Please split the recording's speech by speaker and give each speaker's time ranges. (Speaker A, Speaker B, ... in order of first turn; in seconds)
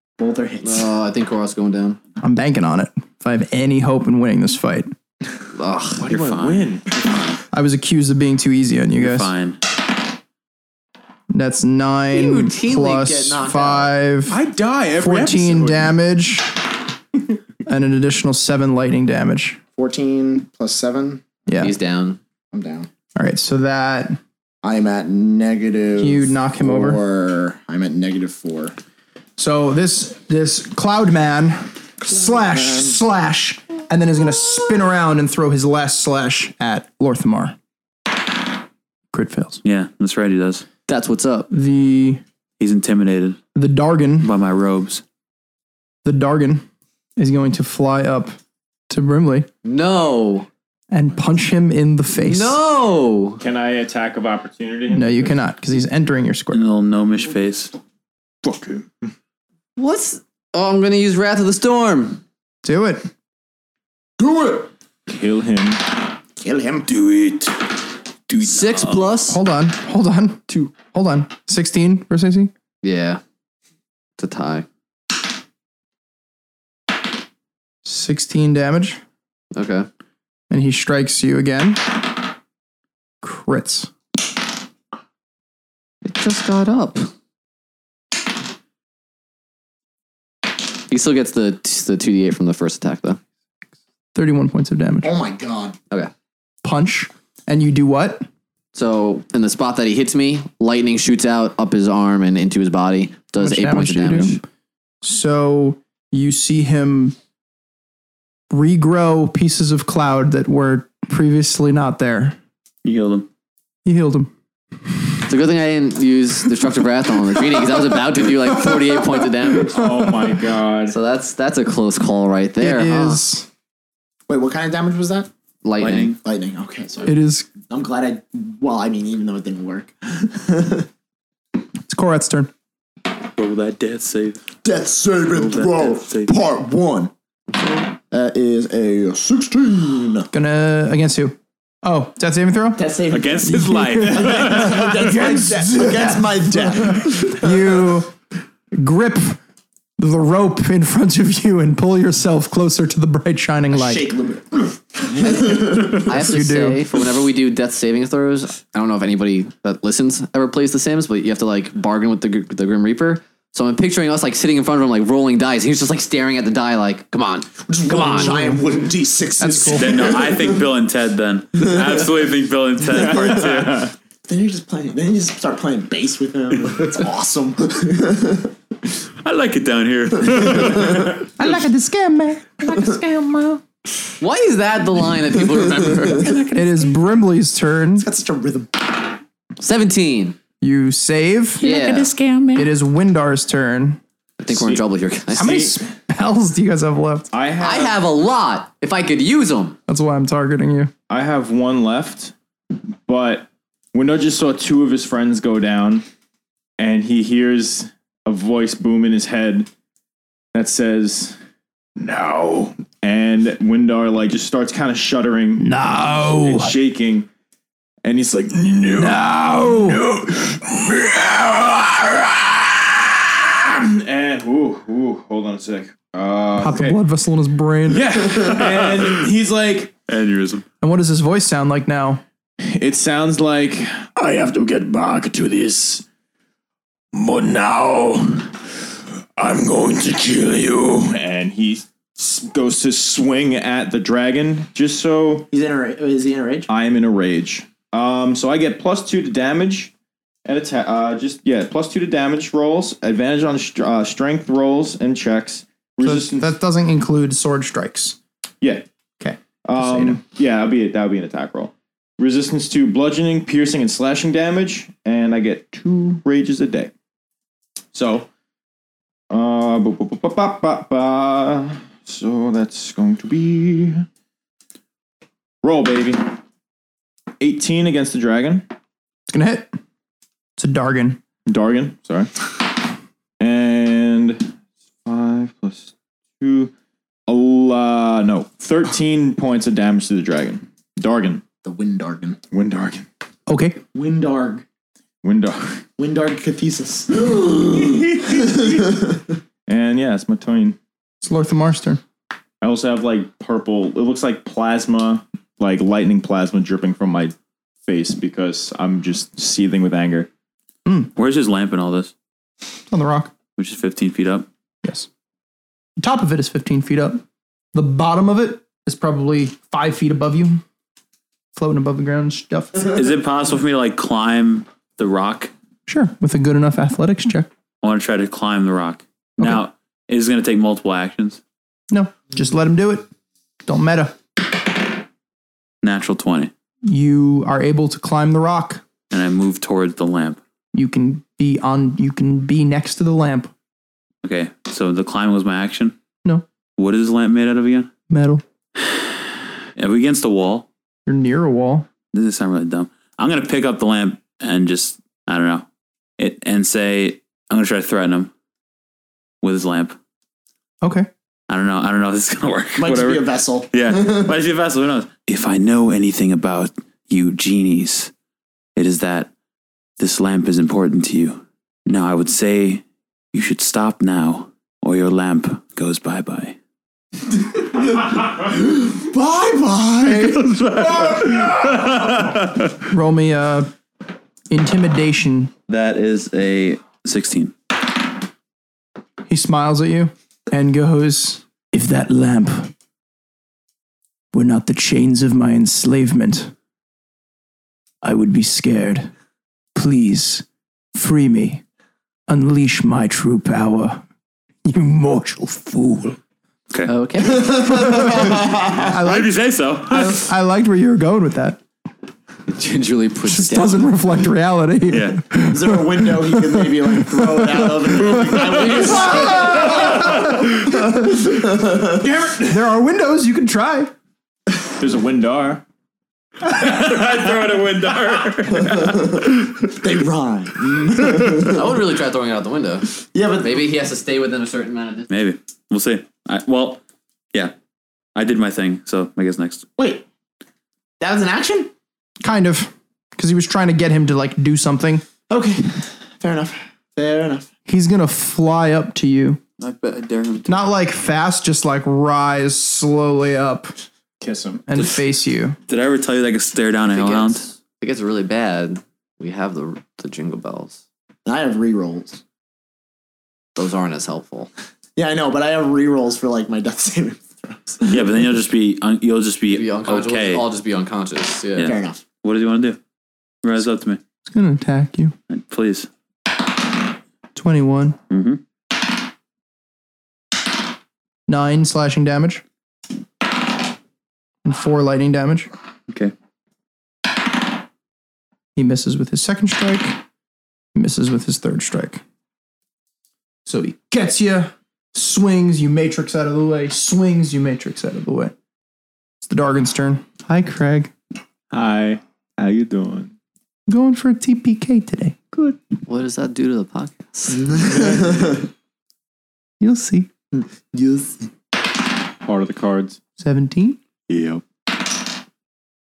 Speaker A: 0.2-0.9, 19.8-21.2, 22.5-22.9, 24.6-28.8, 32.0-33.0, 64.2-64.7, 66.4-66.9, 95.0-95.8, 124.3-125.3, 126.2-127.2, 127.7-130.9, 134.6-137.1, 138.1-140.3, 142.8-147.8, 153.7-156.2, 167.7-170.6, 174.3-178.5, 180.6-181.0, 188.0-189.0, 245.5-246.7, 291.6-292.4, 293.9-294.6, 296.0-299.2, 362.8-364.3, 377.8-380.5, 407.3-408.7, 415.5-422.0, 429.6-431.7, 433.1-433.7, 439.8-440.1, 441.0-441.7, 445.3-447.5, 461.2-462.2, 465.0-468.1, 471.6-472.0, 507.3-508.5, 510.3-511.3
Speaker B: 0.6-2.0, 5.6-6.1, 12.1-14.0, 21.6-22.2, 40.9-41.5, 49.6-50.5, 52.1-53.4, 59.8-62.2, 68.4-69.4, 72.8-73.2, 74.2-74.7, 79.5-79.9, 86.0-87.1, 90.9-93.2, 98.7-104.4, 115.3-119.9, 120.9-123.2, 125.6-126.2, 156.0-168.4, 184.2-186.3, 189.6-190.4, 191.6-192.1, 194.4-195.6, 197.6-199.8, 406.9-407.9, 412.5-413.9, 431.5-435.1, 456.9-460.8, 463.6-464.5, 469.5-471.8, 505.9-507.9
Speaker C: 2.2-4.9, 7.5-9.3, 11.3-14.4, 15.0-16.6, 17.6-19.6, 21.5-21.7, 23.2-24.2, 26.0-27.0, 29.4-37.5, 39.1-39.6, 41.5-42.2, 43.5-44.3, 46.0-46.6, 47.2-48.4, 48.9-49.5, 50.9-52.6, 54.9-56.6, 62.6-63.1, 69.3-72.5, 77.8-79.0, 80.5-81.8, 83.2-83.9, 94.2-95.1, 96.6-98.3, 103.4-104.4, 105.0-107.2, 108.5-112.4, 113.8-114.3, 118.7-118.9, 122.6-123.5, 127.0-127.5, 131.9-132.5, 140.3-142.8, 143.6-148.1, 148.7-149.4, 150.0-154.1, 156.1-156.9, 168.0-168.6, 169.4-169.8, 181.4-182.7, 186.5-188.1, 190.6-191.8, 192.5-194.0, 195.3-197.3, 199.9-200.9, 215.6-216.7, 219.0-220.0, 226.6-228.1, 230.8-232.2, 256.0-258.2, 259.2-260.2, 279.3-279.7, 280.6-281.2, 293.5-293.8, 301.2-302.0, 310.9-311.1, 312.9-313.3, 316.0-317.2, 317.7-320.6, 321.6-322.9, 325.9-327.5, 331.9-333.1, 333.7-334.2, 336.9-338.8, 340.7-343.5, 348.1-348.4, 351.1-351.9, 360.8-361.1, 382.9-383.7, 384.5-385.5, 389.3-392.7, 394.3-396.5, 398.0-399.1, 399.8-401.6, 402.3-404.0, 404.6-406.2, 407.7-411.6, 413.2-421.1, 422.4-423.9, 442.2-445.1, 447.7-449.4, 450.5-453.7, 454.7-455.6, 474.3-475.1, 477.4-478.0, 481.3-482.4, 484.4-485.5, 488.6-490.0, 490.8-492.0, 493.5-498.4, 499.2-500.9, 503.7-505.5, 509.6-510.1, 513.2-513.8
Speaker D: 6.0-7.1, 14.3-15.9, 53.4-55.4, 58.4-58.8, 65.1-65.8, 66.9-67.5, 68.3-69.2, 119.7-121.0, 194.5-195.8, 197.3-198.0, 201.1-202.3, 203.1-206.1, 206.8-209.7, 210.5-211.4, 212.0-217.3, 218.0-227.0, 227.9-229.9, 232.6-236.0, 237.1-238.8, 239.4-245.5, 246.7-249.9, 250.4-256.5, 259.6-266.9, 267.9-268.3, 269.3-274.1, 275.6-276.3, 277.4-278.6, 281.5-282.4, 283.4-284.5, 285.1-286.7, 287.3-291.4, 292.5-293.1, 295.2-295.8, 297.7-298.9, 299.7-300.8, 302.6-310.3, 422.0-422.6, 424.8-425.6, 454.2-454.6, 501.5-503.1, 512.2-513.0, 514.1-514.4
Speaker E: 6.1-6.8, 9.0-9.6, 39.6-40.6, 42.6-43.4, 44.2-45.0, 56.5-57.7, 112.8-113.3, 125.8-126.2, 133.4-134.4, 135.3-136.3, 143.1-145.2, 169.7-173.9, 179.2-181.3, 191.9-192.7, 228.6-229.2, 230.1-230.7, 311.1-312.1, 313.6-314.5, 322.9-325.5, 327.8-331.4, 335.8-336.5, 339.1-340.4, 344.2-346.0, 346.8-347.9, 348.8-350.7, 352.1-355.7, 356.2-358.3, 359.4-360.0, 361.5-368.1, 368.8-369.3, 370.0-376.6, 380.0-382.9, 385.7-387.5, 408.5-410.3, 414.9-415.2, 418.6-418.9, 419.5-420.5, 426.4-429.5, 435.1-436.8, 438.1-439.7, 449.6-450.6, 455.7-457.5, 467.9-470.5, 471.6-472.8, 473.4-474.0, 475.3-475.9, 478.1-478.4